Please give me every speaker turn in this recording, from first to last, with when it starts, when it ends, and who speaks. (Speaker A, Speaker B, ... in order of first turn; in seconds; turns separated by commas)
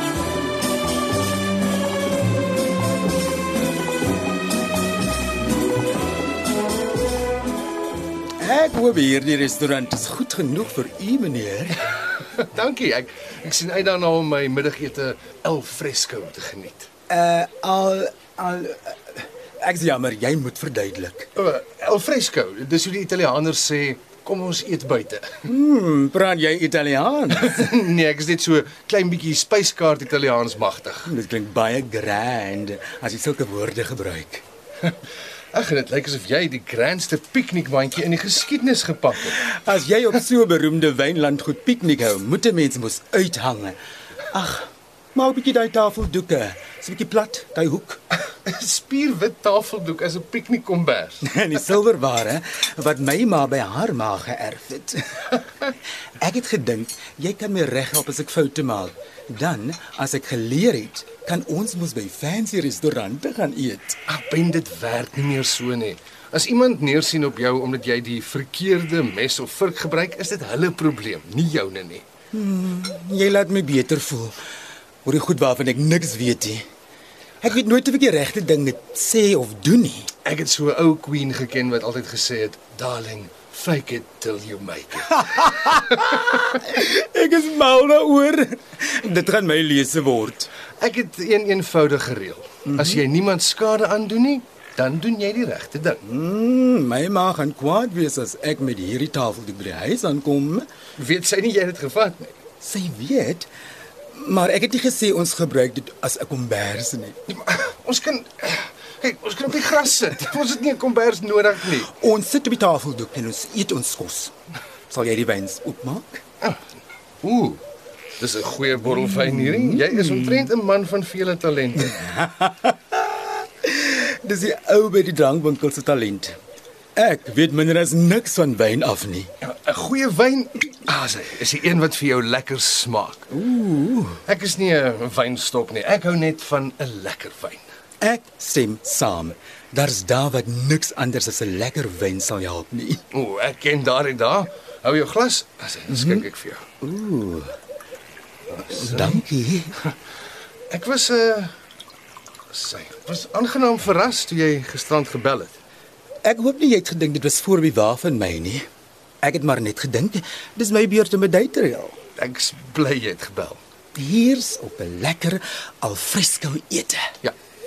Speaker A: 8.4-12.0, Speaker B: 12.3-16.9, Speaker A: 17.1-21.3, Speaker B: 21.4-25.4, Speaker A: 25.4-27.7, Speaker B: 27.3-31.1, Speaker A: 31.0-34.4, Speaker B: 35.5-39.4, Speaker A: 39.3-43.8, Speaker A: 44.3-48.0, Speaker B: 48.4-51.3, Speaker A: 51.2-55.4, Speaker A: 56.2-64.0, Speaker B: 64.1-72.0, Speaker A: 72.3-74.3, Speaker A: 75.0-76.6, Speaker A: 77.4-80.1, Speaker B: 80.2-86.1, Speaker A: 85.2-90.5, Speaker B: 90.8-96.0, Speaker A: 92.7-93.0, Speaker A: 96.0-100.6, Speaker B: 101.0-102.3, Speaker A: 102.6-103.5, Speaker A: 104.1-107.2, Speaker B: 107.3-111.9, Speaker A: 111.8-114.3, Speaker A: 114.9-116.2, Speaker B: 117.2-117.6, Speaker B: 118.2-121.9, Speaker A: 119.0-120.5, Speaker A: 121.8-126.4, Speaker A: 127.0-129.3, Speaker B: 129.4-133.3, Speaker A: 133.3-134.2, Speaker B: 134.3-137.6, Speaker A: 138.0-143.0, Speaker B: 143.1-146.7, Speaker A: 145.9-146.2, Speaker A: 146.8-147.5, Speaker B: 148.5-149.2, Speaker A: 148.7-149.7, Speaker B: 150.7-151.5, Speaker B: 152.5-155.6, Speaker A: 156.2-158.6, Speaker A: 159.2-162.0, Speaker B: 162.2-163.6, Speaker A: 163.9-167.0